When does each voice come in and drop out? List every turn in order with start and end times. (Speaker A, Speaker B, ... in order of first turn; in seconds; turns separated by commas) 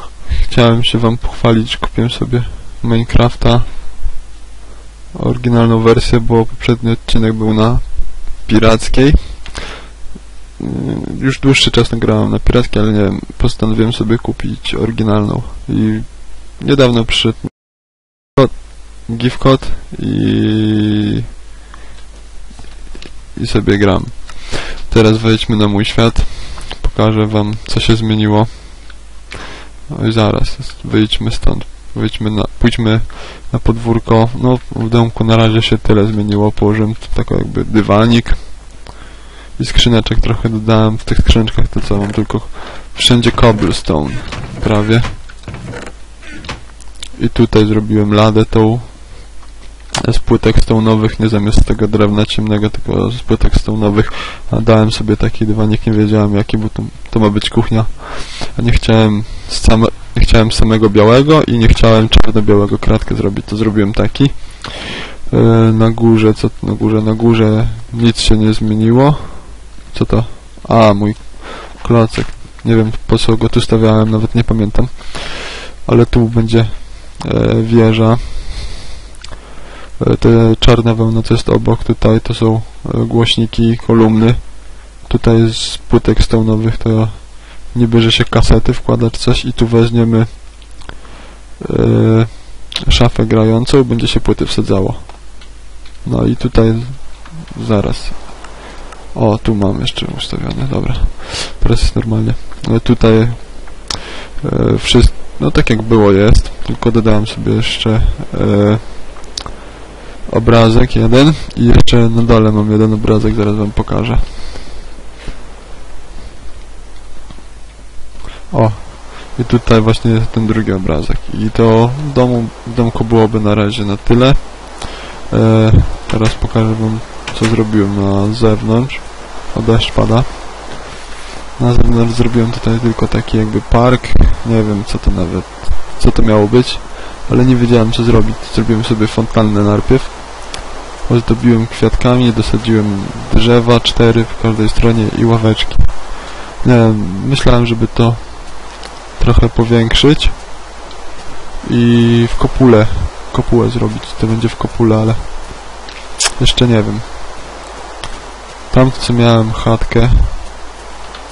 Speaker A: 0.3-3.9, Speaker A: 5.1-9.6, Speaker A: 10.6-21.2, Speaker A: 23.3-29.1, Speaker A: 29.9-38.8, Speaker A: 39.5-45.1, Speaker A: 47.1-49.3, Speaker A: 50.0-78.8, Speaker A: 80.0-90.9, Speaker A: 91.6-95.4, Speaker A: 96.0-109.4, Speaker A: 110.3-114.5, Speaker A: 118.5-130.8, Speaker A: 131.6-150.5, Speaker A: 151.6-155.7, Speaker A: 156.4-157.1, Speaker A: 158.7-160.4